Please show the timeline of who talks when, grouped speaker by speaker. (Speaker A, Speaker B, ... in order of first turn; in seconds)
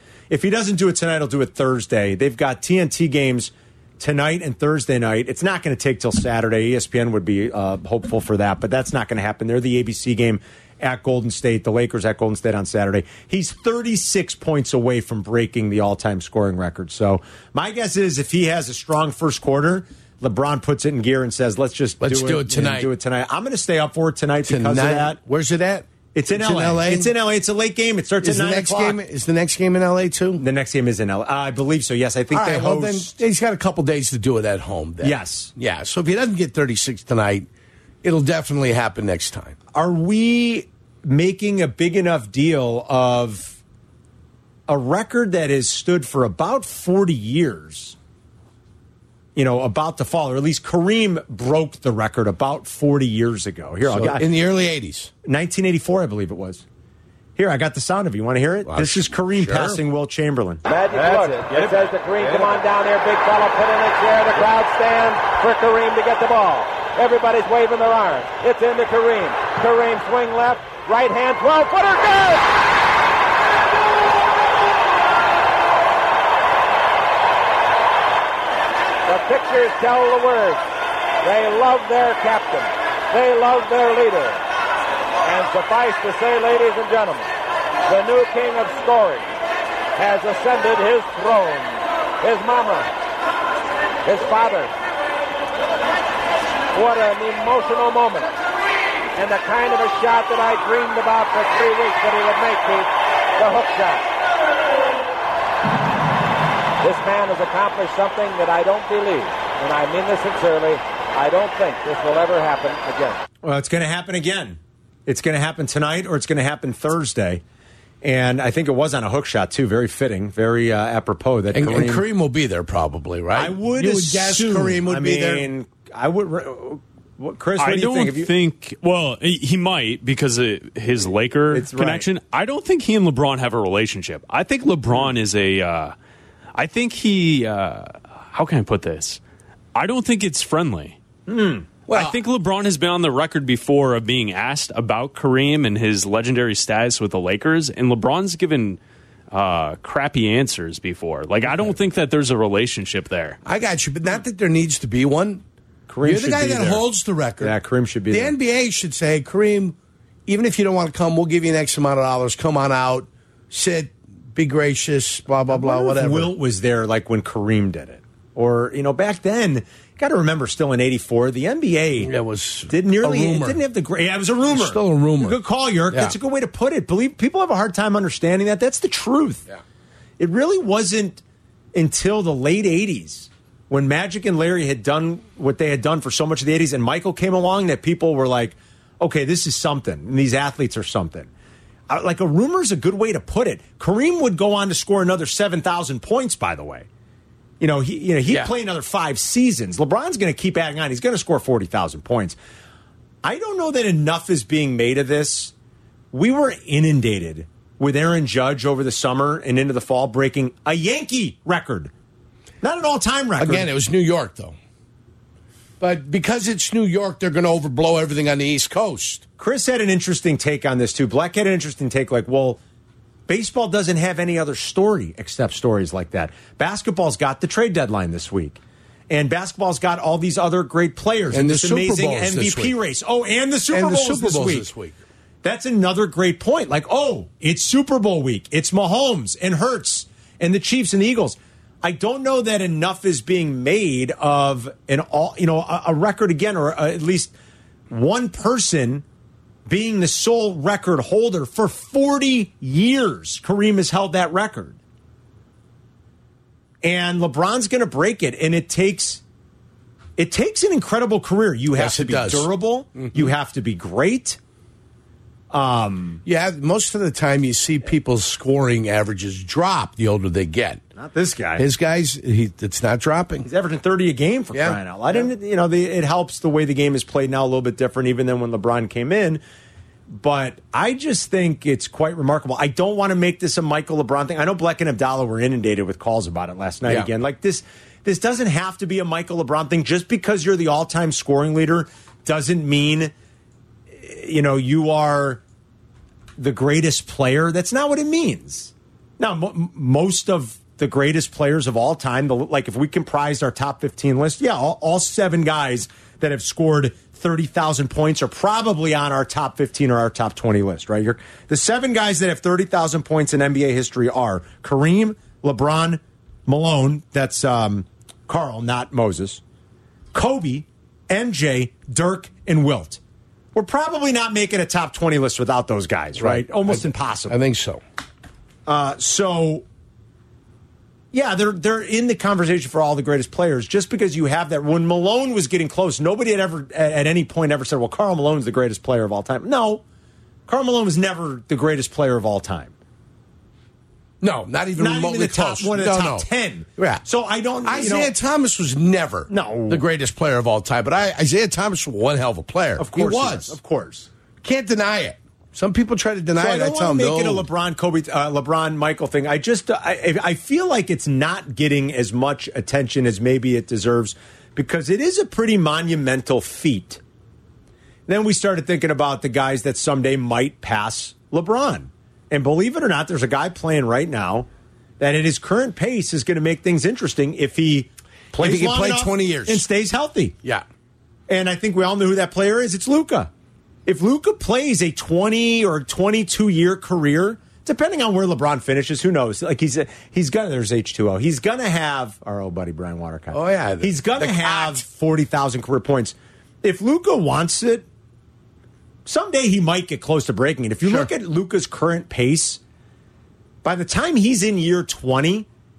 Speaker A: 0.3-25.2, 26.1-29.0, 30.4-33.1, 35.0-35.5, 39.7-43.6, 44.7-48.0, 49.4-54.3, 55.2-56.6, 57.4-60.6, 113.4-117.4, 118.0-122.0, 123.3-128.3, 131.5-132.1, 141.3-141.7, 155.9-156.8, 157.4-158.3, 165.5-172.1, 172.7-179.4, 180.2-181.2, 181.7-191.3, 191.9-196.9, 197.6-202.4, 203.2-205.5, 206.1-211.9, 212.6-213.7, 219.4-222.6, 223.3-228.6, 229.1-234.7, 235.4-247.3, 247.9-249.0, 249.7-254.8, 256.8-259.2, 260.2-264.4, 265.5-266.2, 270.9-271.6, 273.4-279.4, 280.1-293.1, 294.0-295.4, 296.4-319.4, 320.1-323.0, 323.5-327.4, 328.6-329.6, 331.1-339.8, 340.5-342.7, 344.8-348.1, 349.3-349.8, 352.8-354.1, 356.4-367.0, 368.1-374.5, 375.0-380.4, 381.3-383.3, 383.9-397.8, 399.1-402.6, 403.6-405.4
Speaker B: 22.0-22.9, 24.4-27.1, 28.2-30.4, 32.3-37.5, 38.0-39.5, 53.8-55.1, 58.6-59.8, 121.5-125.5, 141.9-142.2, 153.4-155.4, 156.0-157.6, 158.1-159.8, 160.3-166.3, 172.0-173.6, 174.5-175.4, 175.9-176.2, 198.3-198.5, 213.4-214.6, 215.8-219.2, 231.3-232.8, 233.7-235.0, 261.7-263.3, 266.2-270.8, 271.6-273.5, 274.5-274.8, 326.2-327.8, 344.2-347.0, 347.6-353.6, 354.4-357.5, 378.4-379.6, 393.3-394.8, 400.8-401.1
Speaker C: 60.6-72.4, 79.1-80.6, 81.2-84.4, 85.2-87.3, 87.9-89.3, 90.0-92.9, 94.0-94.7, 96.7-98.3, 99.1-104.0, 106.8-113.2
Speaker D: 127.6-135.9, 136.5-139.2, 139.7-141.0, 141.9-148.8, 149.3-153.4